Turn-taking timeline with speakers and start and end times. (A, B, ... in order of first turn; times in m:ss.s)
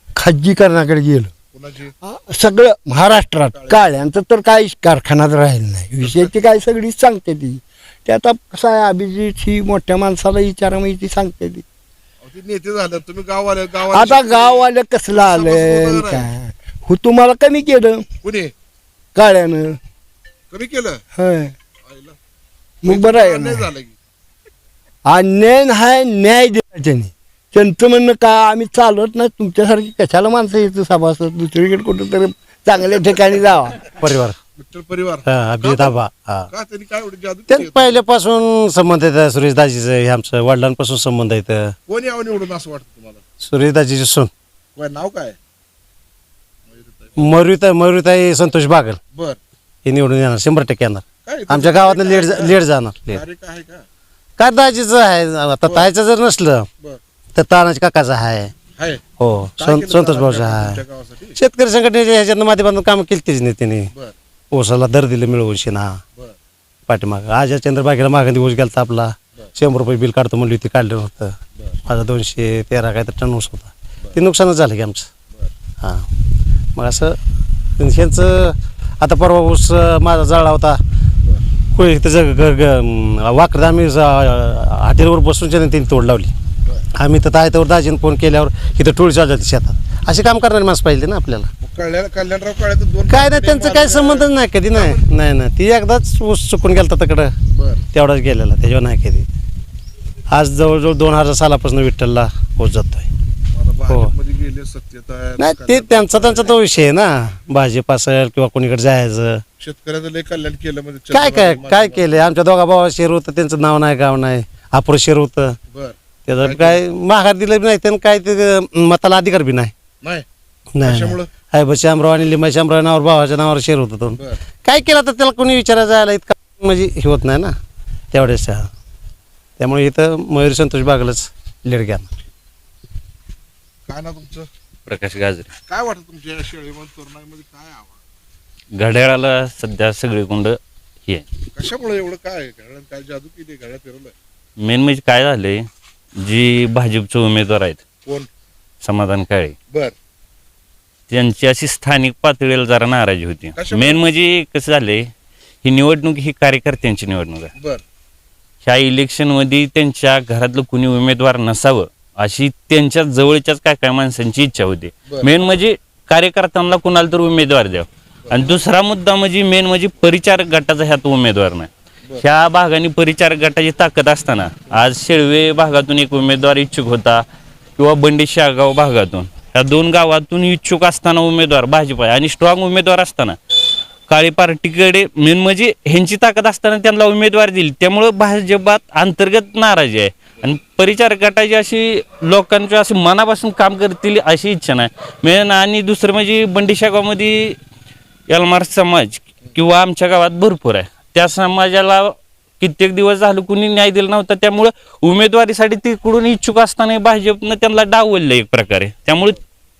0:00.2-0:01.3 A
0:01.5-0:01.9 B
0:02.0-0:11.6 A
0:03.5-0:03.9 B
0:06.0-0:06.3 B
0:12.2-0:16.3 B
0:13.8-0:18.0 A
0:18.2-0:18.5 B
0:19.1-0:19.8 A
0:20.5-0:21.0 B
0:21.2-0:21.5 A
0:21.8-0:22.2 B
0:22.8-0:23.7 A
0:22.8-0:24.0 B
0:25.0-0:33.8 A
0:34.0-0:34.4 C
0:34.6-0:36.0 B
0:35.2-0:36.5 C
0:36.5-0:38.0 B
0:37.5-0:41.7 C
0:41.9-0:43.2 B
0:43.4-0:44.3 C
0:44.8-0:45.4 B
0:46.7-0:47.3 B
0:47.2-0:49.0 C
0:49.1-0:49.4 B
0:49.8-0:53.2 C
0:51.2-0:52.6 B
0:53.1-0:53.8 B
0:54.4-0:56.7 C
0:57.4-0:58.5 C
0:58.8-0:59.0 B
0:59.2-1:00.8 C
0:59.6-1:01.4 B
1:01.4-1:03.9 C
1:04.5-1:06.0 C
1:06.9-1:15.1 C
1:15.8-1:16.1 C
1:16.7-1:17.2 C
1:17.8-1:20.8 C
1:21.7-1:26.3 C
1:27.0-1:31.5 C
1:31.6-1:35.0 B
1:33.1-1:37.3 C
1:37.5-1:37.8 B
1:37.9-1:39.3 C
1:40.3-1:43.1 C
1:43.5-1:46.6 B
1:45.5-1:49.4 C
1:49.6-1:52.3 B
1:51.1-1:55.6 C
1:55.7-1:56.8 B
1:56.3-1:59.7 C
2:00.0-2:00.2 B
2:00.7-2:07.5 C
2:00.8-2:01.3 B
2:08.1-2:08.7 C
2:09.6-2:12.1 C
2:13.9-2:14.5 B
2:14.9-2:15.5 D
2:15.7-2:18.0 B
2:18.7-2:21.2 D
2:21.5-2:24.1 B
2:24.6-2:25.6 D
2:26.2-2:27.8 D
2:28.8-2:29.5 D
2:31.1-2:35.1 D
2:33.6-2:34.0 B
2:35.6-2:37.5 D
2:37.6-2:37.8 B
2:38.6-2:57.2 D
2:45.1-2:45.3 B
2:48.3-2:48.6 B
2:57.8-3:03.4 D
3:04.1-3:17.6 D
3:18.3-3:29.4 D